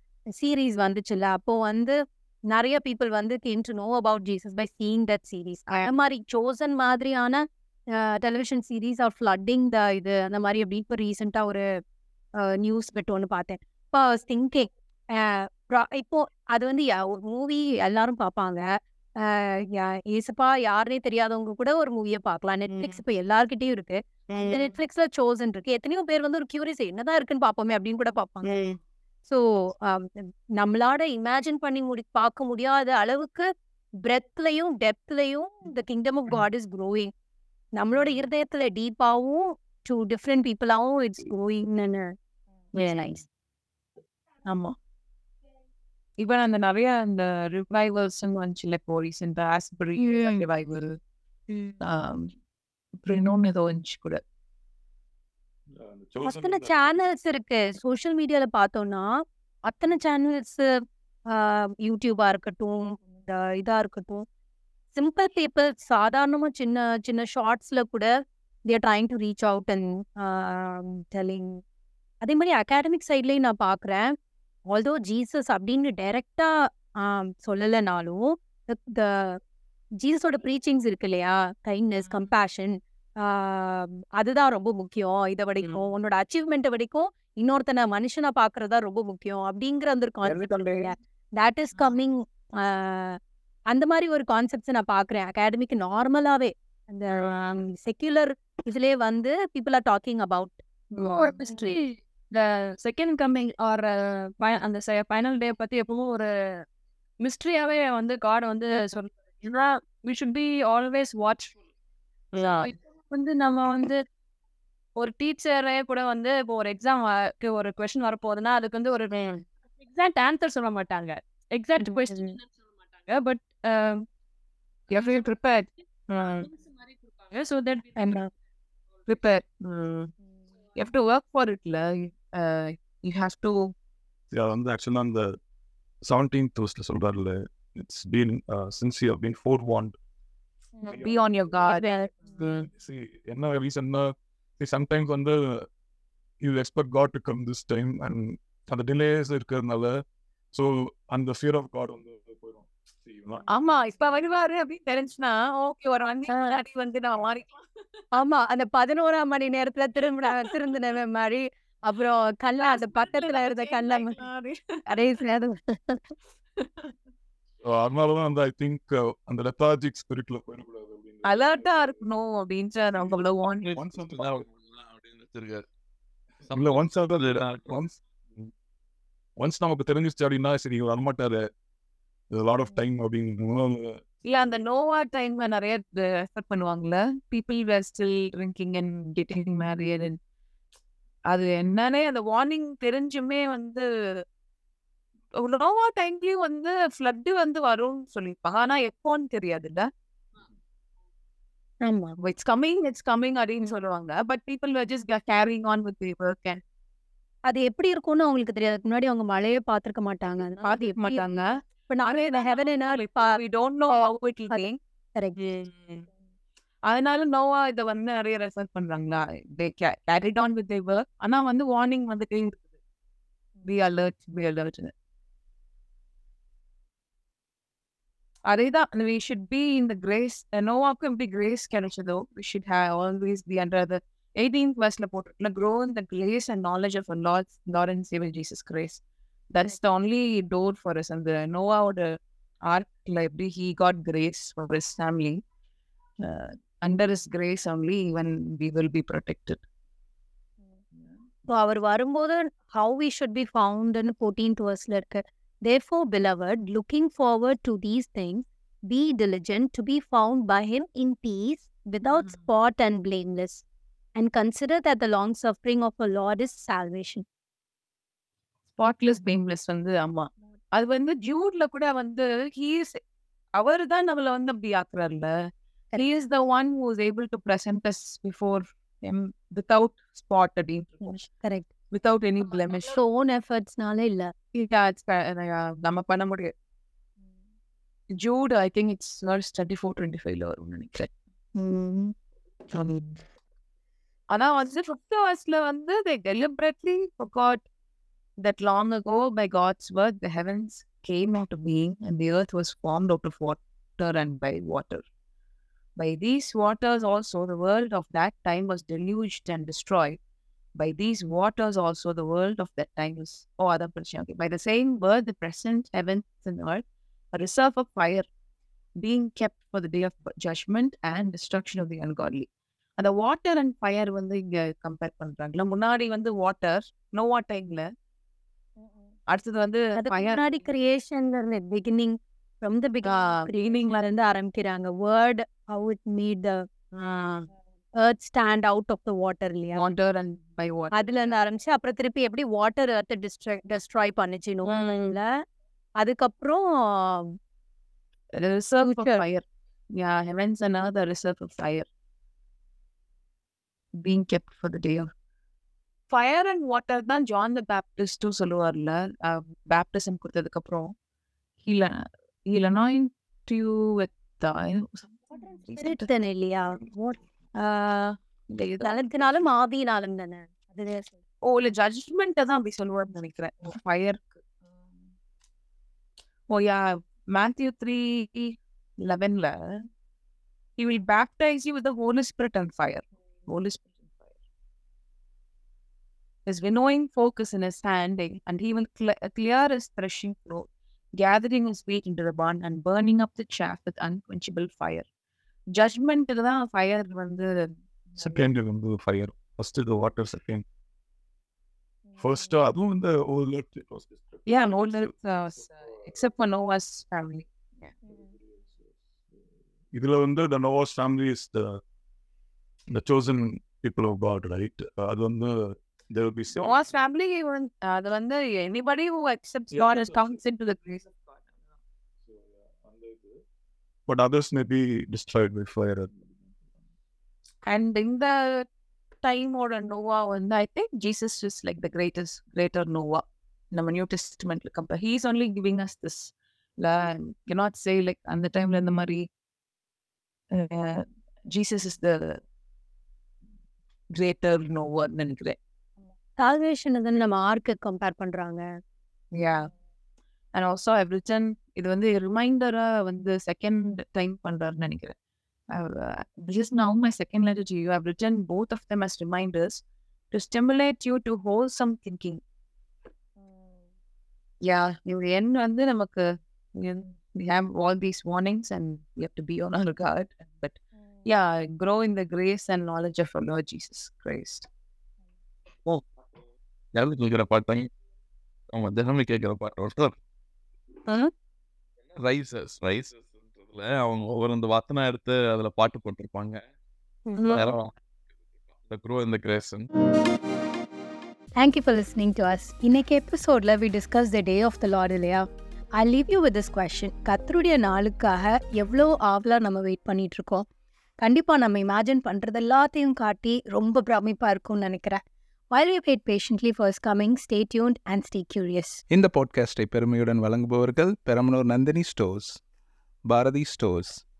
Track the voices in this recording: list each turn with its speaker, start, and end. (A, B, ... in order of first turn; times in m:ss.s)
0:00.4-0:02.0 A
0:02.5-0:11.6 A
0:12.4-0:18.7 A
0:19.2-0:28.5 A
0:22.7-0:23.0 B
0:24.3-0:24.7 B
0:28.4-0:28.8 B
0:29.3-0:33.5 A
0:34.0-0:37.1 A
0:37.8-0:42.1 A
0:42.8-0:43.2 A
0:42.8-0:43.2 B
0:44.5-0:44.7 B
0:46.2-0:51.0 B
0:51.5-0:51.8 A
0:51.8-0:52.3 B
0:53.0-0:54.2 B
0:55.7-0:57.0 C
0:56.2-0:59.1 A
0:59.6-1:00.6 A
1:01.3-1:04.2 A
1:04.9-1:08.1 A
1:08.7-1:11.6 A
1:12.2-1:14.1 A
1:14.7-1:16.5 A
1:17.0-1:19.4 A
1:20.0-1:33.2 A
1:30.2-1:30.9 D
1:33.7-1:40.6 A
1:41.0-1:41.8 B
1:41.3-1:41.7 A
1:42.3-1:46.3 E
1:47.2-1:51.5 E
1:52.4-1:52.7 B
1:53.2-1:53.6 E
1:53.4-1:53.9 B
1:55.0-1:59.2 E
1:59.9-2:02.2 E
2:01.8-2:02.3 B
2:01.8-2:02.1 A
2:03.1-2:04.0 E
2:04.9-2:06.5 B
2:07.3-2:07.9 E
2:09.1-2:10.1 B
2:10.8-2:13.7 B
2:14.3-2:15.4 C
2:16.0-2:19.9 C
2:20.8-2:21.1 A
2:20.9-2:21.9 B
2:21.6-2:22.5 A
2:22.7-2:25.7 C
2:26.4-2:30.0 C
2:30.5-2:33.5 C
2:33.5-2:37.6 B
2:38.1-2:44.2 A
2:42.6-2:44.8 B
2:44.9-2:46.0 A
2:46.6-2:46.9 B
2:47.6-2:52.0 C
2:51.2-2:53.7 B
2:53.6-2:55.6 F
2:53.8-2:54.4 C
2:56.5-2:57.7 F
2:56.5-2:58.0 C
2:59.4-3:01.4 C
3:02.3-3:04.0 C
3:04.2-3:10.2 B
3:11.3-3:14.2 B
3:15.4-3:19.9 B
3:21.8-3:22.2 A
3:22.2-3:26.6 B
3:27.5-3:31.3 A
3:30.6-3:31.5 B
3:31.9-3:33.3 A
3:32.3-3:34.8 B
3:35.4-3:36.1 B
3:36.8-3:42.7 B
3:43.6-3:44.9 B
3:48.5-4:05.4 B
4:06.2-4:09.6 B
4:11.5-4:23.6 A
4:24.2-4:27.2 A
4:28.8-4:33.0 B
4:33.6-4:35.3 B
4:36.0-4:41.2 B
4:41.0-4:41.7 A
4:41.9-4:43.0 B
4:42.9-4:44.3 A
4:44.5-4:46.5 B
4:48.2-4:51.1 B
4:54.3-4:57.6 B
4:58.4-5:05.0 B
5:06.0-5:10.2 B
5:10.8-5:18.2 B
5:19.0-5:27.9 B
5:29.3-5:30.5 B
5:29.9-5:36.6 A
5:33.0-5:33.5 B
5:37.0-5:37.5 B
5:38.0-5:39.8 A
5:39.8-5:41.1 B
5:40.9-5:45.3 A
5:44.6-5:45.2 B
5:46.0-5:47.3 A
5:48.4-5:49.4 B
5:48.8-5:49.2 A
5:50.0-5:51.8 B
5:54.0-5:55.1 B
5:56.1-6:00.9 B
6:01.6-6:06.1 B
6:05.7-6:07.2 A
6:07.6-6:08.9 B
6:08.8-6:11.2 A
6:11.4-6:14.4 B
6:16.5-6:19.8 B
6:20.8-6:24.3 B
6:26.4-6:35.0 B
6:35.7-6:38.4 B
6:38.2-6:40.6 C
6:42.2-6:44.4 C
6:44.5-6:47.9 B
6:49.9-6:51.8 C
6:52.9-6:56.8 C
6:56.6-7:01.1 B
6:59.7-7:00.3 C
7:02.8-7:03.3 C
7:04.1-7:06.2 C
7:07.7-7:08.7 B
7:09.2-7:19.2 B
7:20.5-7:22.4 B
7:24.2-7:25.6 B
7:26.4-7:28.6 A
7:29.3-7:29.7 B
7:30.5-7:35.1 B
7:35.7-7:42.4 B
7:44.6-7:46.3 B
7:46.8-7:54.7 B
7:56.9-7:57.9 F
7:58.7-8:00.2 F
8:02.2-8:06.6 F
8:07.4-8:07.6 B
8:07.5-8:07.9 F
8:08.9-8:09.9 F
8:11.6-8:20.6 G
8:21.2-8:29.0 G
8:29.1-8:32.6 D
8:33.3-8:34.2 D